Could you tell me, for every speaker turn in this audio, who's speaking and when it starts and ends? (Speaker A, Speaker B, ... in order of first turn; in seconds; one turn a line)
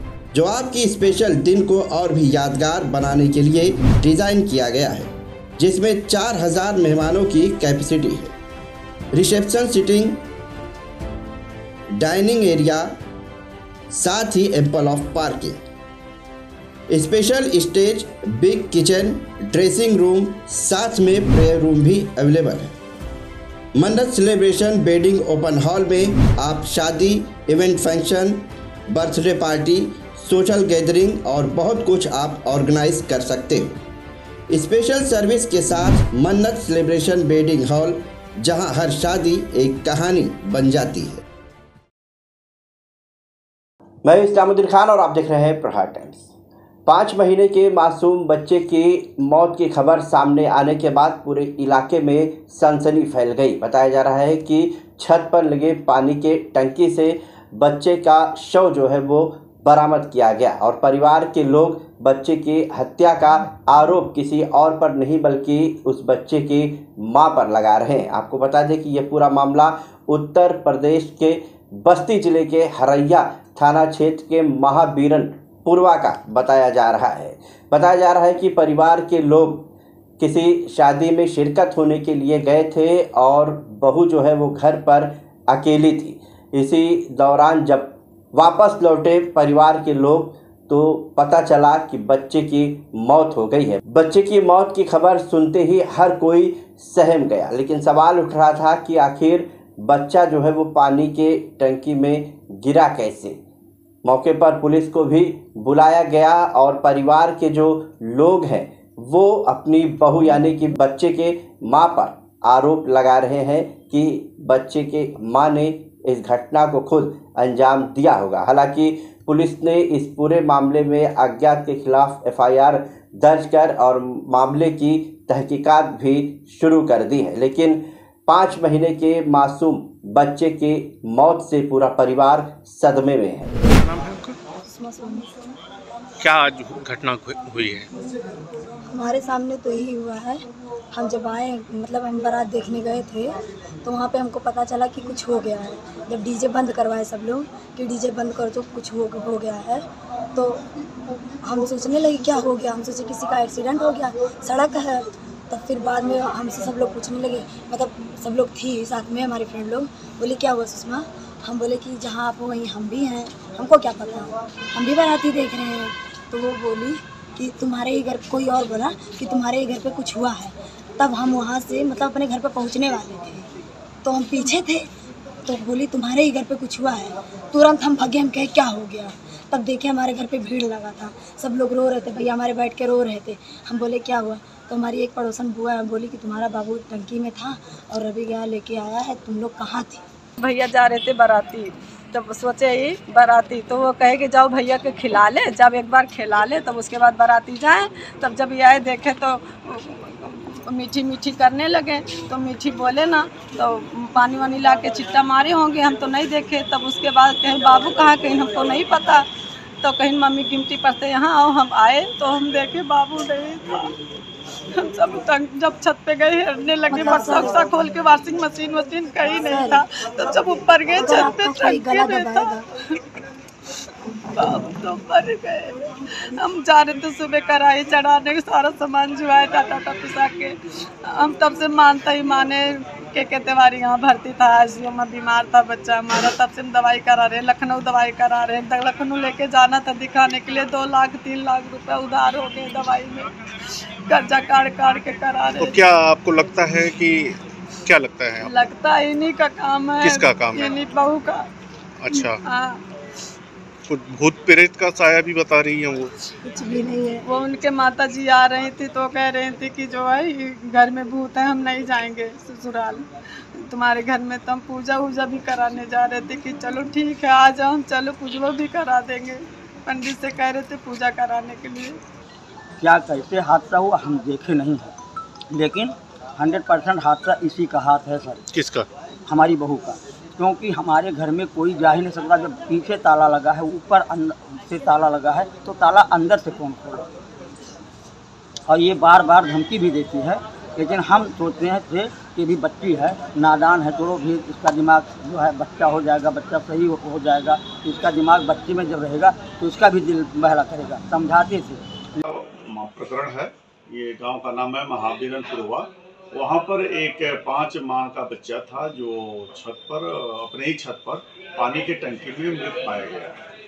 Speaker A: 0.3-8.3
Speaker A: 9.1-10.2
Speaker A: 11.9-12.9
Speaker A: 13.9-15.6
Speaker A: 16.9-22.8
Speaker A: 23.8-33.8
Speaker A: 34.5-41.2
Speaker A: 44.0-46.3
Speaker A: 46.9-103.4
Speaker A: 104.0-133.5
Speaker B: 133.8-134.4
Speaker C: 134.6-135.4
Speaker B: 136.2-137.9
Speaker C: 138.9-150.6
Speaker C: 151.4-173.4
Speaker C: 174.0-174.9
Speaker C: 175.4-190.0
Speaker D: 190.4-209.2
Speaker D: 209.8-213.9
Speaker D: 214.7-222.9
Speaker C: 216.9-217.6
Speaker C: 219.5-219.8
Speaker C: 221.0-222.7
Speaker D: 224.3-243.3
Speaker D: 244.1-245.8
Speaker B: 245.6-248.5
Speaker D: 248.4-251.4
Speaker B: 250.0-250.7
Speaker B: 252.0-252.4
Speaker D: 252.4-252.8
Speaker B: 253.9-256.1
Speaker C: 256.4-257.2
Speaker D: 257.2-263.0
Speaker D: 263.6-272.0
Speaker E: 272.8-274.9
Speaker E: 275.5-278.4
Speaker B: 278.5-278.9
Speaker E: 279.2-287.1
Speaker E: 288.7-301.9
Speaker F: 302.2-313.4